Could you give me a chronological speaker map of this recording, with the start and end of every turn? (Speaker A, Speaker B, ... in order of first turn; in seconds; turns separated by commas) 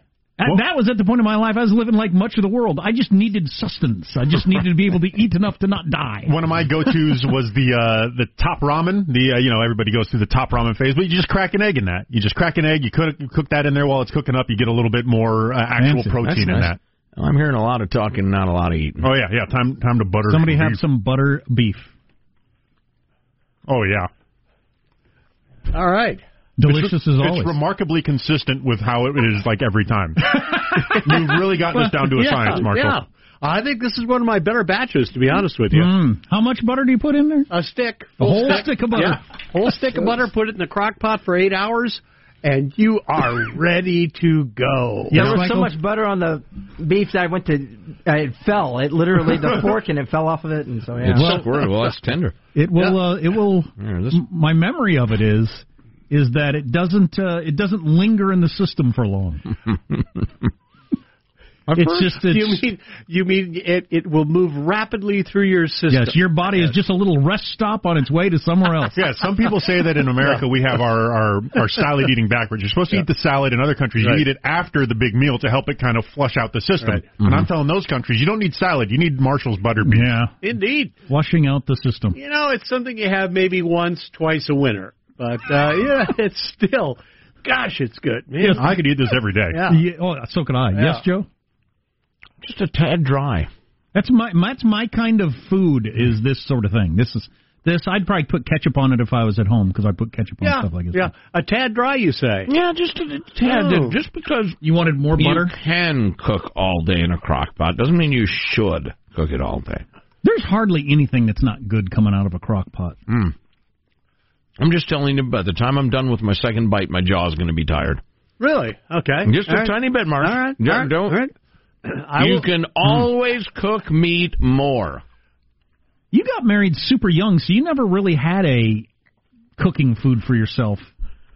Speaker A: 0.4-6.3, Speaker B: 6.2-16.8, Speaker A: 15.8-16.2, Speaker C: 16.2-19.1, Speaker B: 19.0-20.8, Speaker A: 20.3-21.9, Speaker B: 23.7-24.1, Speaker D: 25.7-26.2, Speaker A: 26.6-27.6, Speaker B: 26.6-33.0, Speaker D: 31.8-35.9, Speaker A: 35.7-37.5, Speaker D: 37.5-45.3, Speaker A: 38.2-39.2, Speaker A: 45.1-45.7, Speaker E: 45.2-51.4, Speaker C: 51.0-52.4, Speaker A: 51.1-51.5, Speaker A: 52.5-59.5, Speaker C: 53.8-54.2, Speaker A: 61.7-62.6, Speaker D: 61.8-66.7, Speaker A: 65.9-69.0, Speaker B: 69.0-80.2, Speaker D: 74.0-74.2, Speaker A: 79.8-80.4, Speaker D: 80.4-80.9, Speaker A: 81.0-82.2, Speaker D: 82.2-88.8, Speaker B: 88.5-89.6, Speaker D: 89.5-89.8, Speaker A: 89.7-91.3, Speaker D: 90.7-91.0, Speaker C: 92.4-93.5, Speaker A: 94.0-101.1, Speaker D: 100.4-102.5, Speaker C: 102.5-104.6, Speaker D: 103.4-104.0, Speaker A: 104.6-105.5, Speaker C: 105.2-109.8, Speaker A: 110.2-113.0, Speaker C: 113.1-113.3, Speaker C: 114.6-118.0, Speaker D: 118.4-121.3, Speaker C: 119.2-121.2, Speaker D: 121.8-122.5, Speaker C: 122.2-125.0, Speaker A: 126.1-128.9, Speaker A: 129.6-130.9